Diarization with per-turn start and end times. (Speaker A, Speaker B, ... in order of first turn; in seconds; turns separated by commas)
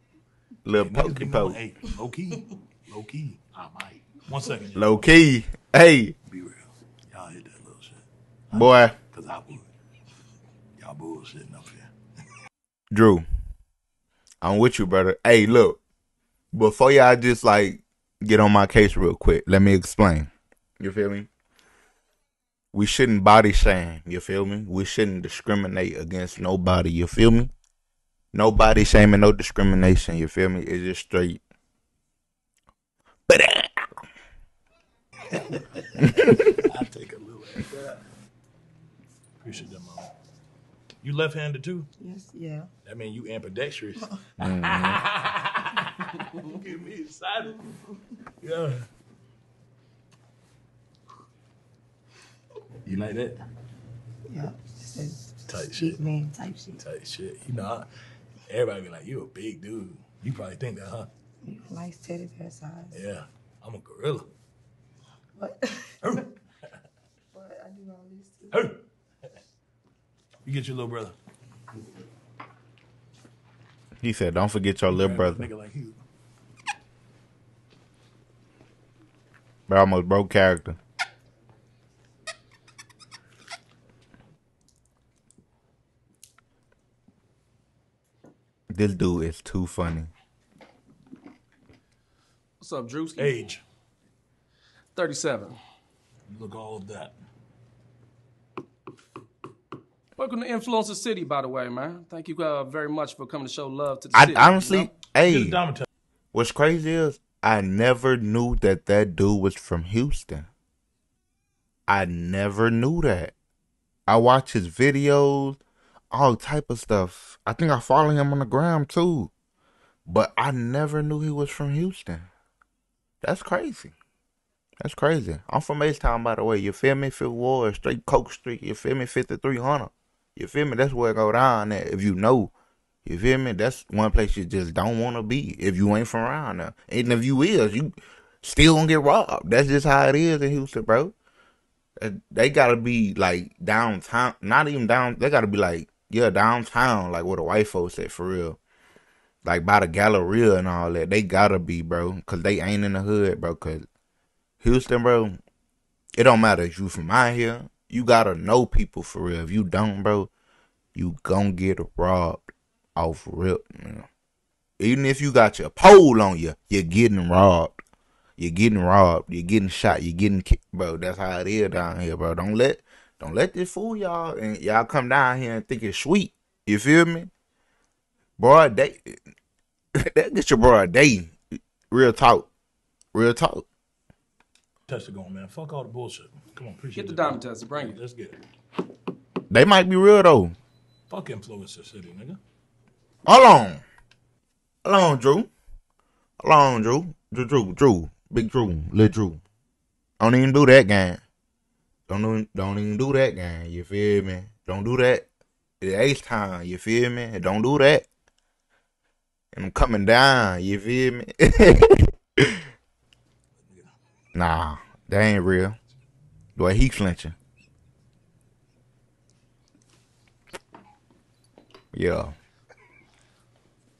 Speaker A: 0.7-1.6, Speaker B: 0.8-5.2, Speaker A: 4.8-6.2, Speaker B: 6.3-9.7, Speaker A: 8.5-8.9, Speaker B: 10.8-11.9, Speaker A: 12.9-13.2, Speaker A: 14.4-15.8, Speaker A: 16.5-21.3, Speaker A: 22.7-27.5, Speaker A: 28.3-31.4, Speaker A: 33.3-33.9, Speaker B: 35.3-38.0, Speaker A: 36.1-36.5, Speaker B: 39.4-40.1, Speaker B: 41.0-41.9, Speaker C: 42.0-42.7, Speaker B: 42.9-47.7, Speaker A: 44.4-45.0, Speaker B: 48.4-48.9, Speaker B: 52.8-53.4, Speaker C: 54.3-56.8, Speaker B: 55.5-56.0, Speaker B: 56.6-57.9, Speaker B: 58.5-61.1, Speaker C: 61.4-63.0, Speaker B: 62.9-64.3, Speaker C: 65.4-66.2, Speaker B: 66.0-66.3, Speaker C: 67.3-68.7, Speaker B: 68.5-68.8, Speaker B: 70.5-71.2, Speaker A: 74.0-75.5, Speaker B: 74.9-76.0, Speaker A: 79.7-80.8, Speaker A: 88.7-90.1, Speaker D: 92.6-93.4, Speaker B: 93.2-93.6, Speaker D: 94.9-95.6, Speaker B: 96.3-97.1, Speaker D: 100.2-104.9, Speaker A: 104.1-105.6, Speaker B: 105.2-105.9, Speaker A: 106.3-110.5, Speaker A: 111.9-113.3, Speaker A: 114.1-115.6, Speaker A: 116.1-119.3, Speaker A: 120.1-122.3, Speaker A: 123.2-123.9, Speaker A: 124.8-132.5, Speaker A: 133.1-141.1, Speaker A: 142.0-148.6, Speaker A: 149.4-153.9, Speaker A: 154.6-155.4, Speaker A: 156.2-160.3, Speaker A: 160.9-164.1, Speaker A: 164.8-167.8, Speaker A: 168.4-177.3, Speaker A: 178.4-179.2, Speaker A: 179.9-182.5, Speaker A: 183.1-183.7, Speaker B: 184.9-188.4, Speaker D: 186.9-188.0, Speaker A: 189.5-190.6, Speaker B: 191.1-192.4, Speaker A: 193.3-193.8, Speaker A: 194.8-195.5, Speaker A: 196.4-199.4, Speaker A: 200.2-201.2, Speaker A: 202.1-205.3, Speaker A: 205.8-208.1, Speaker A: 209.5-212.6, Speaker B: 213.6-213.9, Speaker A: 214.3-215.8, Speaker A: 216.6-217.3, Speaker A: 221.9-222.3